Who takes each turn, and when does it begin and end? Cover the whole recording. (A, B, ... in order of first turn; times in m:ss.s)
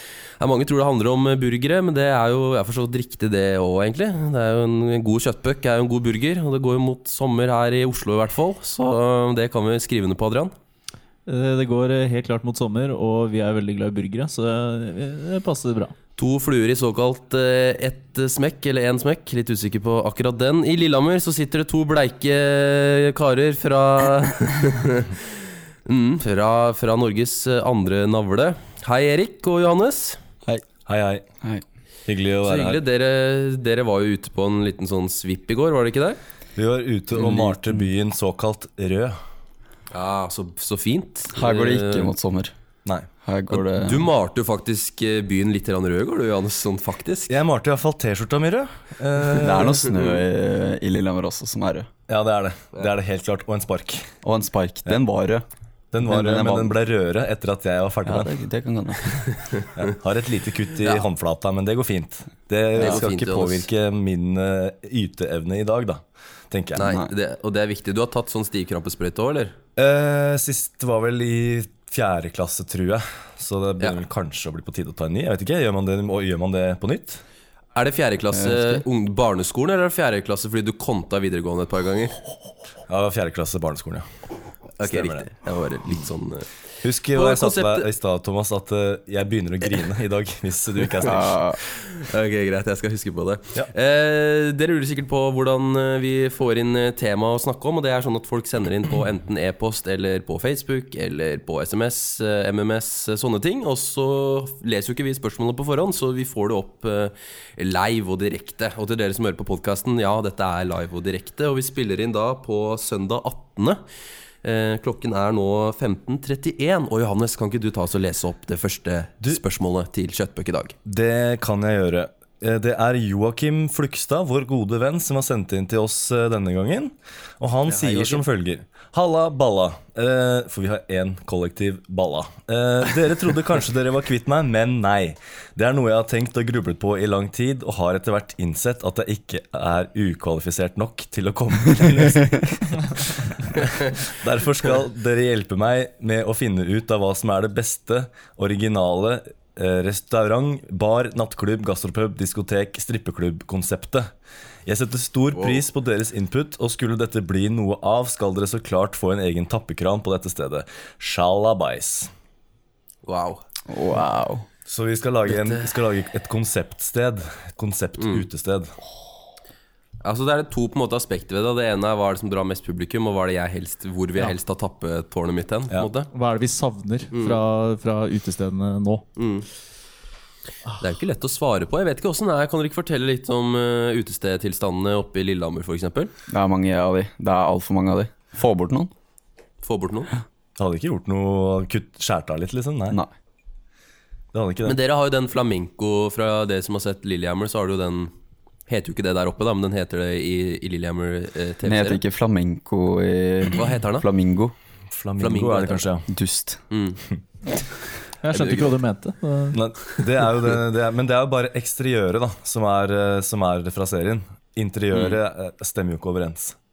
0:00.4-0:10.5 A
0:11.3-0:15.9 B
0:16.2-0:30.2 A
0:30.8-0:31.2 C
0:32.1-0:32.8 C
0:32.4-0:36.2 A
0:36.6-0:39.2 C
0:37.1-0:37.9 D
0:39.9-0:42.1 A
0:41.3-0:42.5 D
0:43.2-0:44.1 D
0:43.5-0:47.3 A
0:47.3-0:50.0 C
0:49.4-0:51.9 D
0:52.1-0:54.1 C
0:54.2-0:55.4 D
0:55.9-0:58.3 C
0:56.0-0:56.8 D
0:58.0-0:59.2 D
0:59.4-0:59.7 A
0:59.7-1:07.0 C
1:02.7-1:03.1 D
1:02.8-1:03.7 A
1:06.7-1:09.6 A
1:06.8-1:07.1 D
1:09.8-1:17.2 C
1:17.7-1:22.2 A
1:18.3-1:18.8 D
1:22.9-1:24.0 C
1:24.8-1:26.5 A
1:24.8-1:25.3 C
1:26.8-1:31.4 C
1:27.1-1:27.9 A
1:31.0-1:31.6 D
1:31.6-1:53.8 A
1:54.4-2:00.7 A
2:00.8-2:34.1 C
2:07.6-2:08.2 A
2:34.6-2:42.1 C
2:35.3-2:35.6 A
2:43.0-2:43.4 A
2:43.7-2:44.4 D
2:44.6-2:48.7 C
2:45.3-2:45.7 A
2:48.0-2:48.2 A
2:50.0-2:56.1 A
2:56.1-2:59.1 B
2:57.1-2:57.4 A
2:59.2-2:59.5 A
3:00.8-3:06.1 A
3:06.3-3:08.9 D
3:09.6-3:10.1 A
3:10.6-3:13.0 C
3:14.3-3:14.8 C
3:14.6-3:18.1 A
3:18.7-3:22.0 A
3:21.6-3:24.5 D
3:23.5-3:24.1 A
3:24.9-3:26.1 C
3:25.2-3:25.8 A
3:26.1-3:26.6 D
3:26.7-3:27.0 A
3:28.2-3:29.6 B
3:28.3-3:28.8 A
3:29.5-3:36.6 C
3:34.9-3:35.2 A